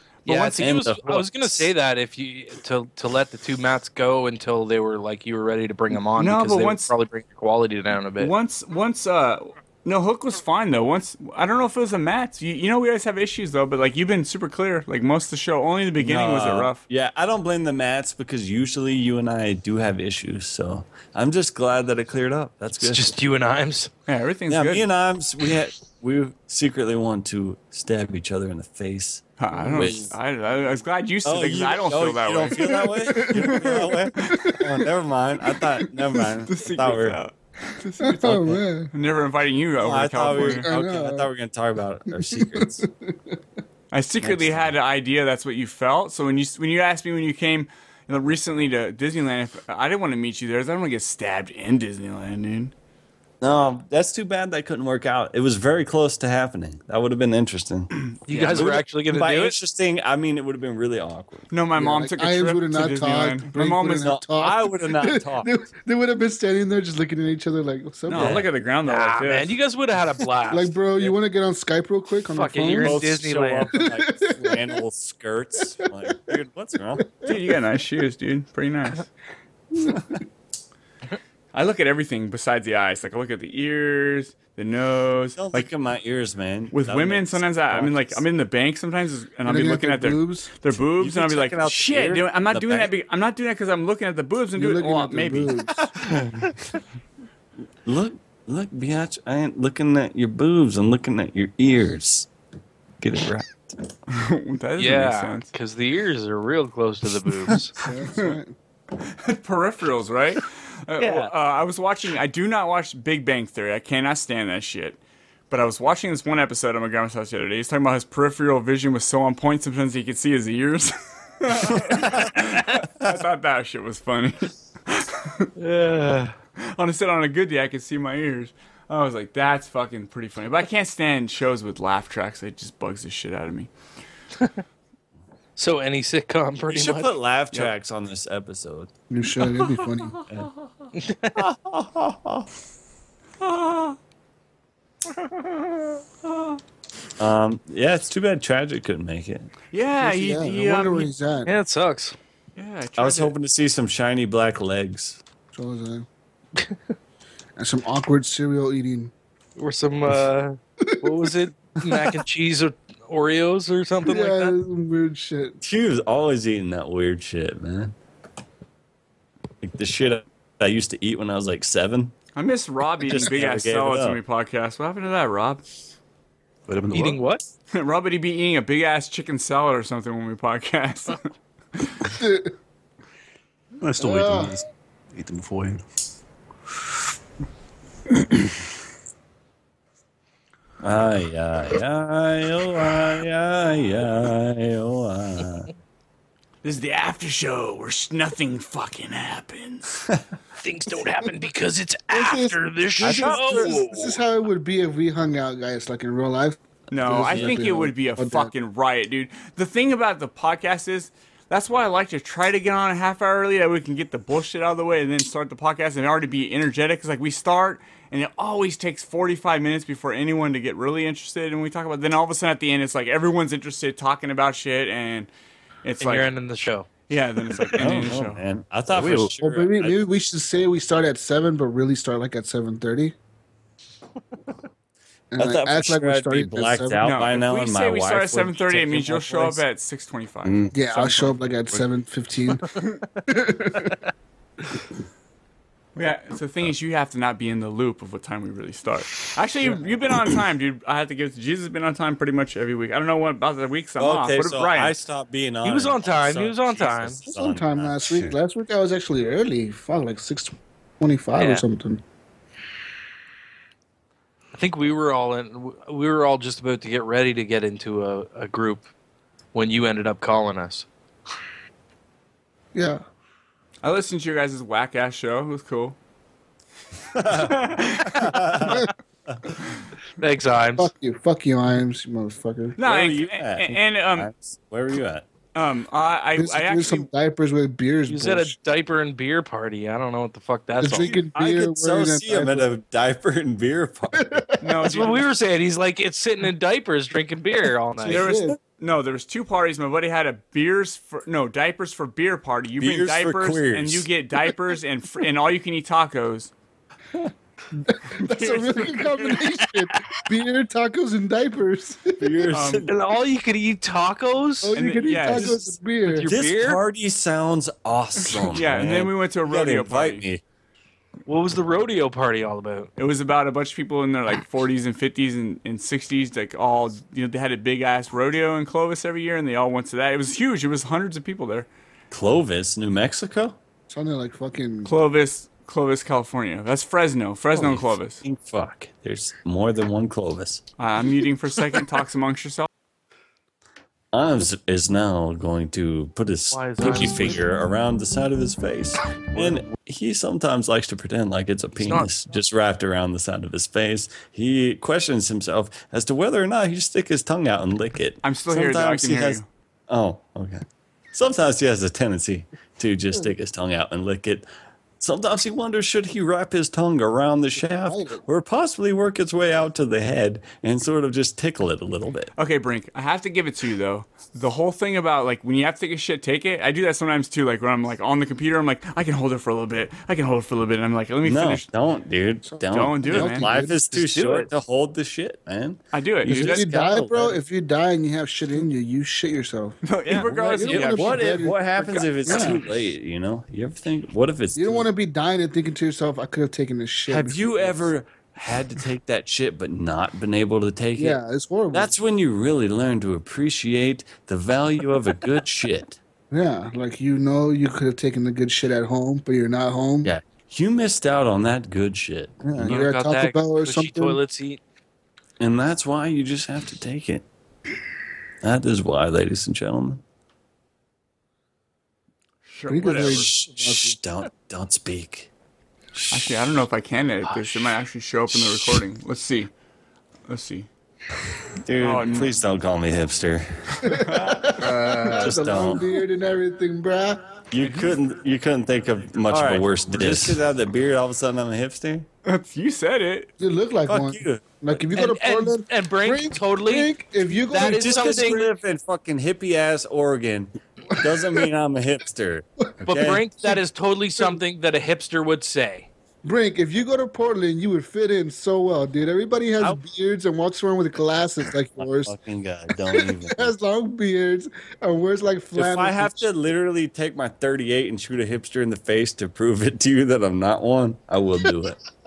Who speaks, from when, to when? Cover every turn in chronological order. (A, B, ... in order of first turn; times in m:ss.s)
0:00.3-0:08.3 A
0:00.3-0:00.6 B
0:00.6-0:01.7 C
0:06.2-0:06.9 B
0:08.2-0:16.8 B
0:16.0-0:23.2 C
0:22.8-0:23.9 A
0:24.1-0:24.9 B
0:24.5-0:30.2 C
0:29.4-0:34.6 B
0:31.2-0:37.2 C
0:32.6-0:34.8 D
0:36.4-0:40.7 B
0:38.0-0:38.9 D
0:38.3-0:38.6 C
0:39.8-0:42.9 C
0:40.3-0:41.3 D
0:42.3-0:43.4 D
0:43.9-0:52.7 B
0:44.2-0:44.8 C
0:53.4-1:01.5 C
0:58.3-0:59.6 A
1:01.5-1:04.1 B
1:01.8-1:08.4 D
1:03.9-1:05.5 C
1:08.1-1:09.5 B
1:08.1-1:08.5 C
1:08.8-1:11.2 A
1:10.5-1:13.0 D
1:12.3-1:13.7 A
1:12.8-1:17.1 C
1:13.8-1:14.8 D
1:17.2-1:19.1 B
1:19.7-1:20.2 D
1:21.5-1:25.7 B
1:25.4-1:28.2 C
1:26.7-1:35.9 B
1:29.5-1:30.5 D
1:30.8-1:32.9 C
1:34.6-1:35.9 D
1:35.9-1:36.6 C
1:37.8-1:42.3 C
1:43.0-1:43.8 C
1:44.1-1:45.5 B
1:44.8-1:47.7 A
1:47.8-1:48.6 D
1:49.0-1:55.0 B
1:51.0-1:51.3 A
1:55.5-2:05.5 B
2:01.8-2:02.3 C
2:05.6-2:06.4 A
2:06.6-2:13.7 B
2:15.6-2:17.2 A
2:16.7-2:18.9 C
2:19.1-2:20.2 D
2:20.9-2:21.4 A
2:21.4-2:22.5 C
2:27.2-2:29.5 C
2:29.7-2:31.1 B
2:30.0-2:31.5 D
2:31.5-2:32.2 A
2:32.6-2:33.3 B
2:33.0-2:35.2 C
2:35.5-2:36.1 D
2:37.6-2:39.1 D
2:39.6-2:44.6 A
2:44.0-2:45.6 D
2:45.6-2:48.0 C
2:49.6-2:52.2 C
2:52.4-2:55.6 B
2:53.0-2:54.2 C
2:56.7-2:57.3 E
2:56.9-2:57.4 A
2:57.7-3:01.2 B
3:02.1-3:02.5 D
3:03.8-3:05.8 E
3:04.0-3:04.6 D
3:10.8-3:15.7 C
3:16.6-3:19.9 B
3:20.6-3:24.2 A
3:22.1-3:28.5 D
3:23.0-3:23.8 C
3:26.9-3:45.3 B
3:27.3-3:27.6 C
3:45.8-3:46.3 B
3:46.0-3:46.9 A
3:47.1-3:48.4 B
3:47.8-3:50.0 C
3:48.9-3:49.3 E
3:49.4-3:53.2 D
3:55.3-3:57.0 D
3:55.4-3:59.6 C
3:57.0-4:01.4 B
4:00.4-4:00.7 E
4:00.7-4:04.0 D
4:06.0-4:15.0 B
4:14.0-4:18.4 C
4:15.6-4:17.2 A
4:17.3-4:22.0 D
4:21.4-4:21.6 A
4:24.5-4:28.9 A
4:29.5-4:30.9 A
4:32.8-4:33.0 D
4:33.8-4:36.0 B
4:37.1-4:39.4 C
4:37.3-4:38.8 B
4:40.2-4:40.9 A
4:40.8-4:42.8 D
4:42.8-4:44.3 B
4:42.8-4:45.3 C
4:45.5-4:47.1 B
4:46.4-4:48.6 D
4:48.1-4:51.2 A
4:50.8-4:52.7 D
4:50.9-4:54.5 C
4:54.2-4:54.7 D
4:54.6-4:55.2 B
4:54.8-4:58.3 A
4:58.0-4:58.6 D
4:58.1-5:06.5 B
5:02.8-5:04.1 C
5:07.9-5:12.5 D
5:08.2-5:09.5 B
5:12.2-5:12.9 C
5:12.5-5:12.9 B
5:12.9-5:14.8 A
5:14.6-5:16.3 D
5:14.8-5:15.6 B
5:15.3-5:16.8 A
5:16.2-5:20.4 C
5:18.3-5:20.2 B
5:21.3-5:22.9 A
5:23.0-5:31.7 B
5:32.1-5:33.6 C
5:33.9-5:34.9 D
5:34.8-5:38.2 B
5:37.5-5:40.6 C
5:40.8-5:42.7 B
5:44.1-6:04.5 C
5:46.5-5:47.4 A
5:51.8-5:52.1 A
5:58.2-5:59.5 B
6:05.0-6:12.3 C
6:07.6-6:08.2 D
6:12.4-6:21.7 B
6:21.2-6:27.3 C
6:22.5-6:23.8 D
6:22.7-6:23.5 B
6:23.9-6:24.5 A
6:25.9-6:26.6 B
6:26.3-6:32.6 D
6:26.9-6:27.3 A
6:29.9-6:31.4 B
6:30.1-6:34.9 C
6:32.0-6:32.5 B
6:34.6-6:37.9 D
6:37.1-6:41.2 C
6:41.0-6:41.9 D
6:41.7-6:46.0 C
6:46.3-6:50.1 D
6:50.0-6:52.8 C
6:52.4-6:54.2 D
6:52.6-6:54.6 A
6:55.4-6:57.2 C
6:58.4-7:00.0 C
7:02.5-7:03.3 B
7:02.7-7:04.0 D
7:03.0-7:05.3 C
7:06.0-7:06.4 C
7:06.1-7:09.5 B
7:10.3-7:10.7 B
7:11.6-7:13.8 C
7:11.8-7:12.3 B
7:13.8-7:17.4 D
7:13.8-7:14.6 B
7:15.1-7:15.8 C
7:17.5-7:22.1 C
7:17.6-7:17.9 B
7:19.4-7:20.4 E
7:22.2-7:23.3 B
7:23.4-7:28.5 D
7:23.9-7:24.4 C
7:24.9-7:26.9 A
7:27.5-7:28.5 A
7:27.5-7:33.2 C
7:31.2-7:31.4 D
7:32.8-7:35.9 A
7:36.2-7:42.1 D
7:41.8-7:43.5 C
7:42.9-7:46.2 D
7:45.6-7:51.8 C